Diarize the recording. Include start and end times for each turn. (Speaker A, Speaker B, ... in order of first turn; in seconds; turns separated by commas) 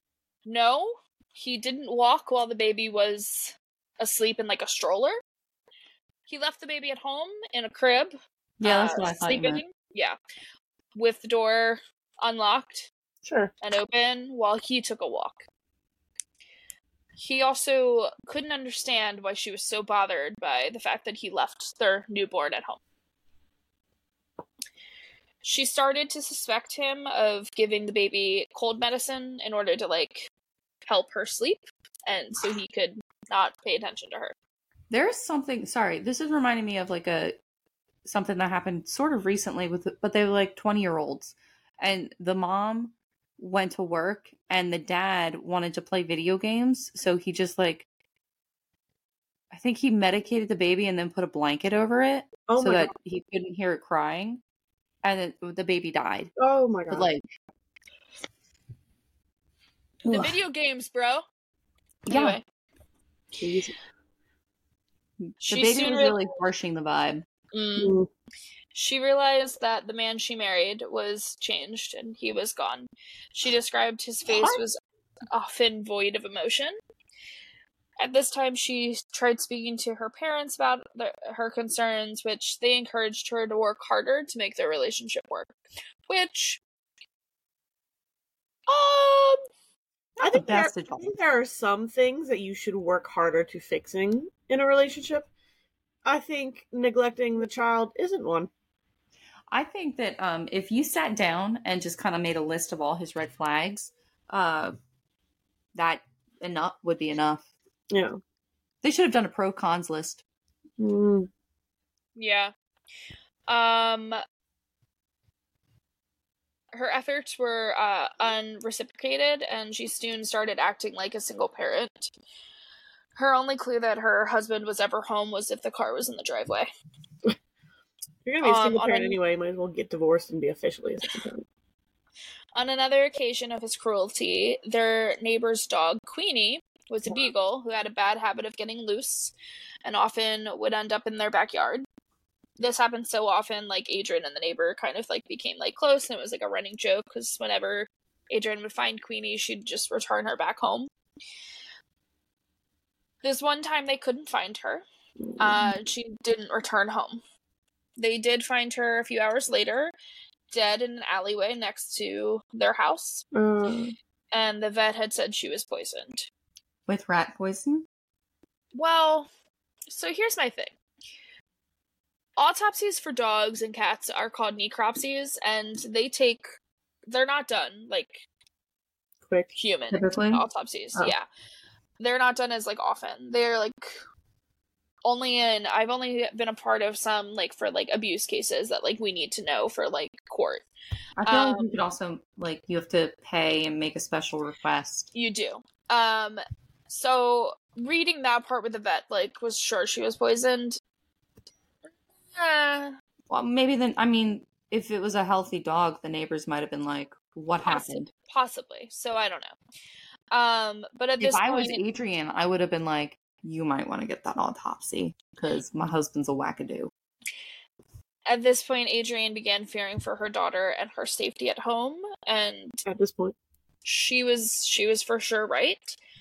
Speaker A: 0.5-5.2, Speaker A: 6.3-10.2, Speaker B: 8.6-9.6, Speaker A: 10.9-12.9, Speaker C: 13.2-13.5, Speaker A: 13.6-15.4, Speaker A: 17.2-22.8, Speaker A: 25.4-30.3, Speaker A: 30.9-34.4, Speaker B: 34.9-37.4, Speaker B: 38.0-47.9, Speaker B: 49.5-54.4, Speaker C: 52.5-52.9, Speaker B: 55.0-56.3, Speaker C: 56.4-57.1, Speaker B: 56.9-57.2, Speaker A: 60.1-61.2, Speaker B: 62.1-62.4, Speaker A: 62.1-62.4, Speaker C: 63.4-63.7, Speaker B: 65.3-67.2, Speaker A: 65.4-66.2, Speaker A: 67.5-68.0, Speaker C: 67.8-68.1, Speaker A: 68.7-74.8, Speaker B: 74.3-74.6, Speaker A: 75.3-76.8, Speaker A: 78.0-85.5, Speaker A: 86.1-86.6, Speaker A: 88.7-89.4, Speaker B: 90.2-91.2, Speaker C: 90.2-95.3, Speaker C: 96.0-98.5, Speaker B: 99.5-104.7, Speaker B: 105.8-107.4, Speaker C: 107.9-108.2, Speaker B: 108.8-110.2, Speaker C: 110.8-111.3, Speaker A: 112.2-112.5, Speaker A: 113.5-114.2, Speaker A: 116.7-122.1, Speaker A: 123.2-126.7, Speaker C: 128.2-131.5, Speaker A: 128.4-129.2, Speaker A: 132.6-139.3, Speaker A: 139.8-141.8, Speaker A: 142.6-150.9, Speaker A: 153.2-154.8, Speaker C: 155.2-155.7, Speaker A: 155.4-157.2, Speaker A: 158.0-159.9, Speaker A: 160.5-163.3, Speaker C: 163.3-163.9, Speaker A: 164.3-166.3, Speaker B: 166.9-167.9, Speaker A: 168.8-169.3, Speaker A: 169.9-170.8, Speaker A: 172.4-176.5, Speaker A: 177.1-178.2, Speaker A: 179.6-181.3, Speaker B: 179.9-180.4, Speaker A: 182.0-184.0, Speaker A: 185.0-190.7, Speaker B: 191.2-195.1, Speaker A: 191.3-191.8, Speaker A: 195.2-200.8, Speaker A: 202.3-203.0, Speaker B: 203.3-208.1, Speaker A: 207.6-209.6, Speaker A: 210.3-211.8, Speaker B: 211.2-216.9, Speaker A: 218.3-222.8, Speaker C: 222.9-223.4, Speaker A: 223.8-226.0